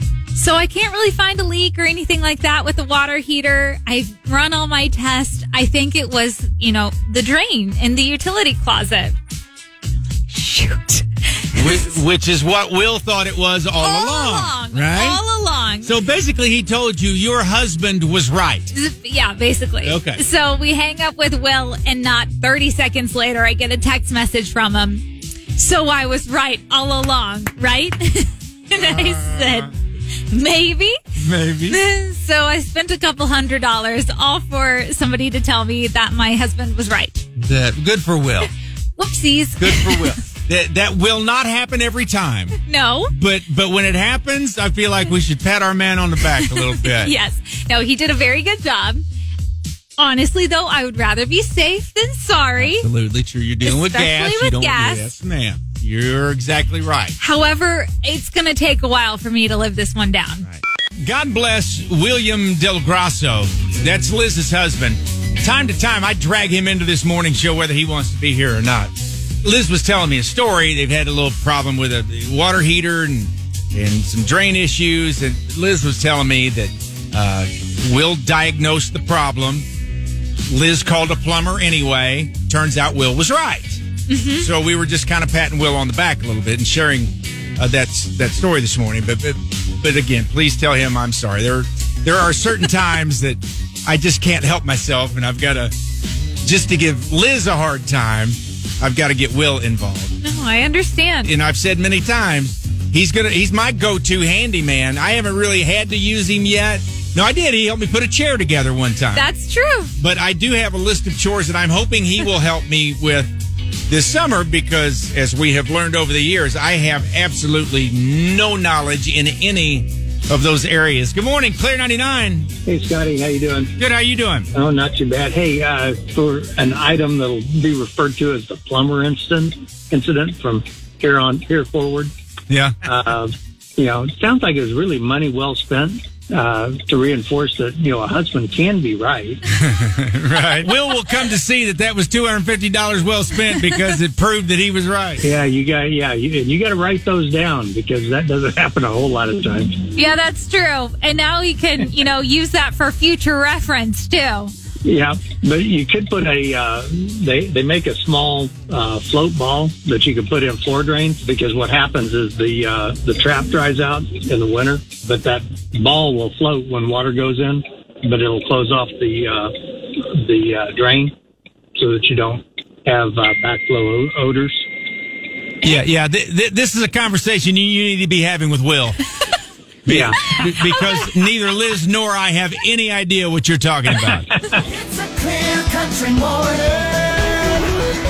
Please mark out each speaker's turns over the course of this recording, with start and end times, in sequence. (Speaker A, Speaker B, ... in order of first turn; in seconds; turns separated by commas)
Speaker A: 0.3-9.2, Speaker A: 10.3-12.0, Speaker B: 11.6-15.2, Speaker A: 13.8-15.9, Speaker B: 15.8-18.7, Speaker A: 18.7-29.7, Speaker B: 19.8-20.2, Speaker B: 28.7-29.7, Speaker A: 30.3-31.0, Speaker B: 31.1-31.8, Speaker A: 31.6-37.2, Speaker B: 37.4-38.5, Speaker A: 39.0-40.1, Speaker B: 39.6-42.6, Speaker A: 42.6-43.1, Speaker B: 43.1-47.1, Speaker A: 46.3-49.0, Speaker A: 50.0-52.9, Speaker B: 52.6-57.1, Speaker A: 53.6-55.1, Speaker A: 57.2-60.5, Speaker B: 61.0-79.7, Speaker B: 80.5-83.8, Speaker A: 84.1-84.5, Speaker B: 84.4-95.7, Speaker B: 96.4-100.2, Speaker A: 100.2-101.3, Speaker B: 101.2-109.3, Speaker A: 109.1-109.9, Speaker B: 110.0-113.3, Speaker B: 113.9-122.5, Speaker C: 122.7-123.7, Speaker B: 123.8-124.5, Speaker C: 124.5-132.1, Speaker B: 132.5-132.8, Speaker C: 132.8-139.4, Speaker B: 139.5-145.2, Speaker A: 143.4-143.9, Speaker C: 145.2-149.9, Speaker A: 149.9-154.5, Speaker C: 154.8-171.1, Speaker C: 171.8-174.6, Speaker B: 175.6-179.0, Speaker B: 179.8-184.3, Speaker C: 179.9-180.3, Speaker A: 180.3-181.3, Speaker C: 183.9-184.6, Speaker D: 184.7-187.6